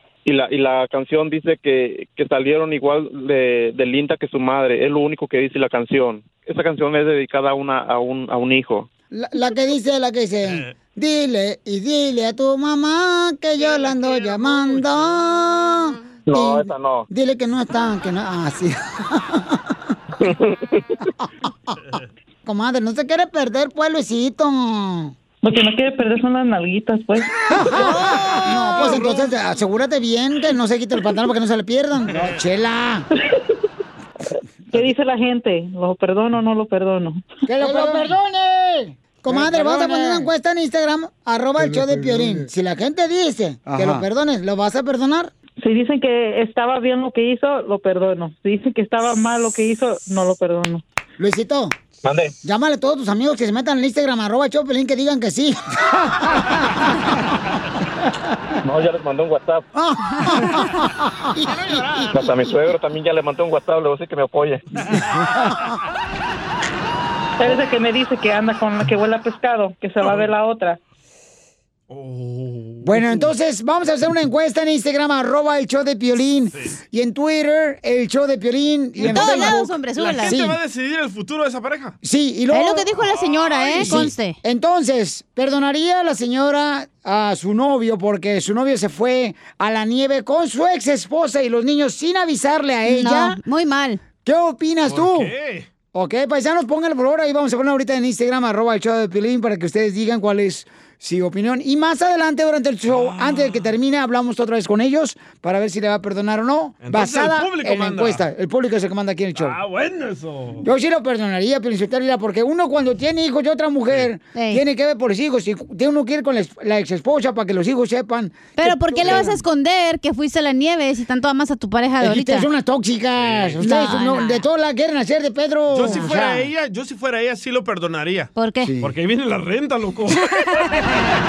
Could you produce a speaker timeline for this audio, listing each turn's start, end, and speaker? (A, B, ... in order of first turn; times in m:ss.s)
0:00.2-0:08.9 A
0:09.1-0:19.7 B
0:13.6-0:15.3 C
0:16.3-0:17.1 A
0:20.2-0:20.8 A
0:22.5-0:25.1 B
0:25.4-0:27.3 D
0:27.5-0:33.1 B
0:27.7-0:28.8 E
0:28.8-0:29.3 C
0:34.7-0:38.0 D
0:37.5-0:45.3 B
0:45.6-0:50.8 D
0:51.2-0:51.7 B
0:52.0-0:52.3 A
0:52.4-0:56.9 B
0:58.6-0:59.7 A
0:59.8-1:01.3 B
1:01.4-1:02.2 C
1:02.1-1:04.7 A
1:07.4-1:10.8 D
1:10.0-1:10.3 C
1:11.9-1:13.3 C
1:12.8-1:20.6 B
1:19.0-1:22.0 C
1:19.0-1:20.4 E
1:22.0-1:23.0 B
1:22.5-1:24.4 E
1:23.0-1:24.2 C
1:23.6-1:33.4 B
1:32.8-1:34.0 E
1:34.2-1:35.3 B
1:34.9-1:35.7 C
1:35.9-1:49.6 B
1:42.9-1:43.7 C
1:46.8-1:48.2 C
1:49.4-1:50.7 C
1:50.6-1:59.4 B
1:54.4-1:54.6 E
1:58.6-2:02.5 E
2:02.0-2:06.5 B
2:03.2-2:03.6 C
2:03.6-2:04.4 E
2:05.7-2:10.3 C
2:08.4-2:08.9 E
2:08.6-2:08.9 B